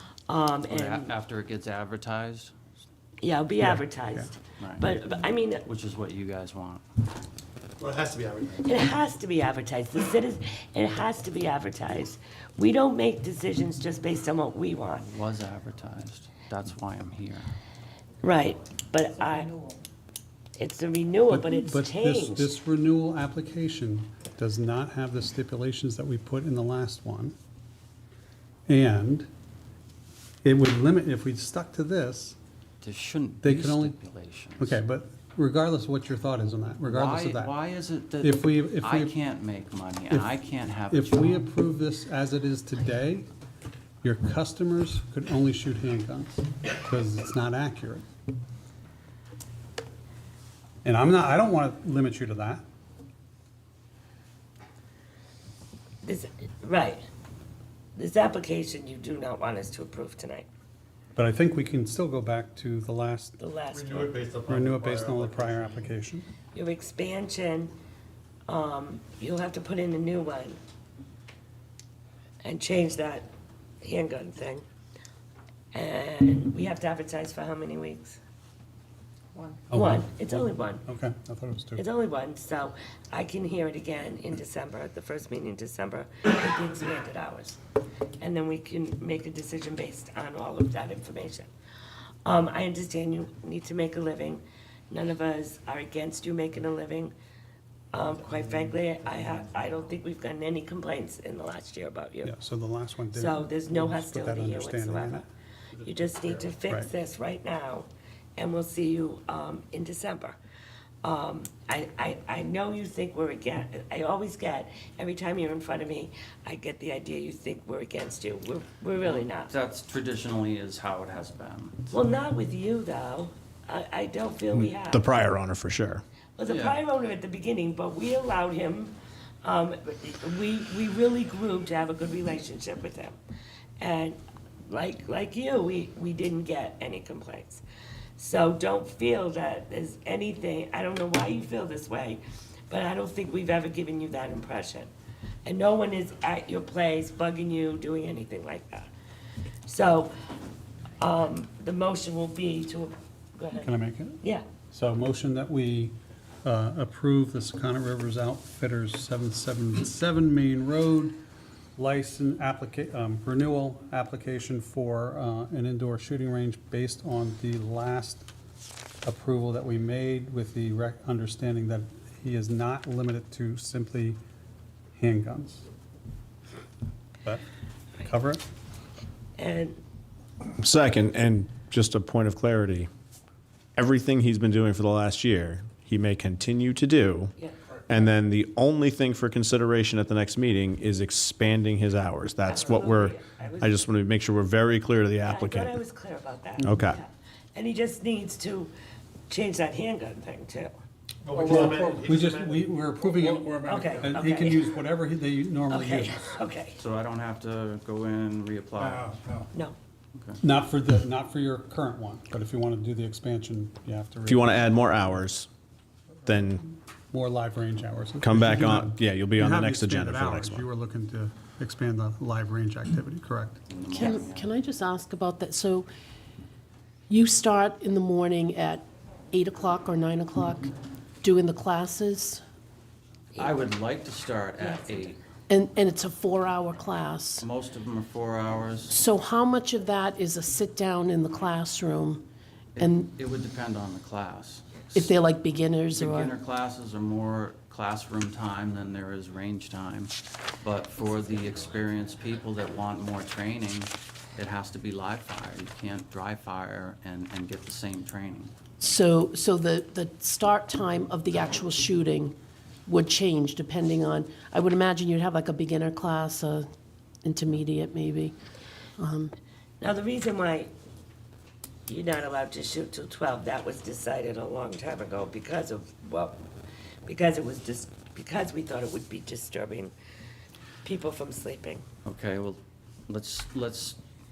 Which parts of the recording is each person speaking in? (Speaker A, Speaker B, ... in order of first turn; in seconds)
Speaker A: 0.3-1.1, 3.2-5.6, 8.6-15.1, 18.2-19.6, 20.6-22.5, 56.0-57.0, 58.0-60.5, 63.4-64.0, 66.5-67.7, 68.5-70.6, 72.4-73.3, 73.8-74.6, 75.7-78.2, 79.7-80.8, 81.8-87.6, 88.2-91.5, 92.2-97.1, 97.9-102.3, 103.1-105.3, 105.8-110.4, 111.0-119.5, 121.9-125.1, 126.4-133.2, 133.8-137.6, 138.2-144.9, 145.4-148.9, 149.7-150.1, 151.0-153.7, 179.4-179.8, 192.5-193.8, 195.2-198.7, 199.3-200.7, 203.7-204.7, 205.7-206.8, 234.6-235.1, 269.8-270.7, 271.9-276.4, 277.1-279.9, 280.8-281.8
Speaker B: 0.7-2.5, 4.6-4.9, 5.6-6.8, 15.0-17.5, 32.8-34.8, 36.8-41.4, 119.0-121.9, 126.5-126.8, 206.8-209.2, 223.7-224.5, 233.3-235.2, 237.4-239.0, 242.8-245.1, 245.9-258.5, 282.0-284.0
Speaker C: 3.6-4.3, 21.3-27.4, 28.7-29.3, 30.4-32.4, 33.4-34.0, 34.6-37.5, 38.2-39.2, 40.1-43.3, 44.0-48.0, 50.8-52.6, 61.1-63.4, 63.9-66.3, 79.7-81.8, 102.2-105.2, 153.6-154.2, 154.7-161.2, 161.8-168.3, 169.0-174.2, 175.0-175.7, 178.0-178.4, 201.3-206.2, 210.4-215.2, 216.2-223.6
Speaker D: 7.8-8.6, 63.7-65.6, 201.2-204.2, 208.8-209.4
Speaker E: 124.5-126.0, 180.6-182.9, 183.8-187.3, 187.9-195.8, 196.6-197.0, 214.2-215.5, 216.2-216.6, 218.2-220.7
Speaker F: 223.9-225.9, 227.1-230.7, 231.2-232.4, 235.5-237.5, 238.9-242.2, 242.8-243.1, 244.9-246.3, 258.8-262.3, 262.9-266.6, 267.2-268.3, 269.0-269.3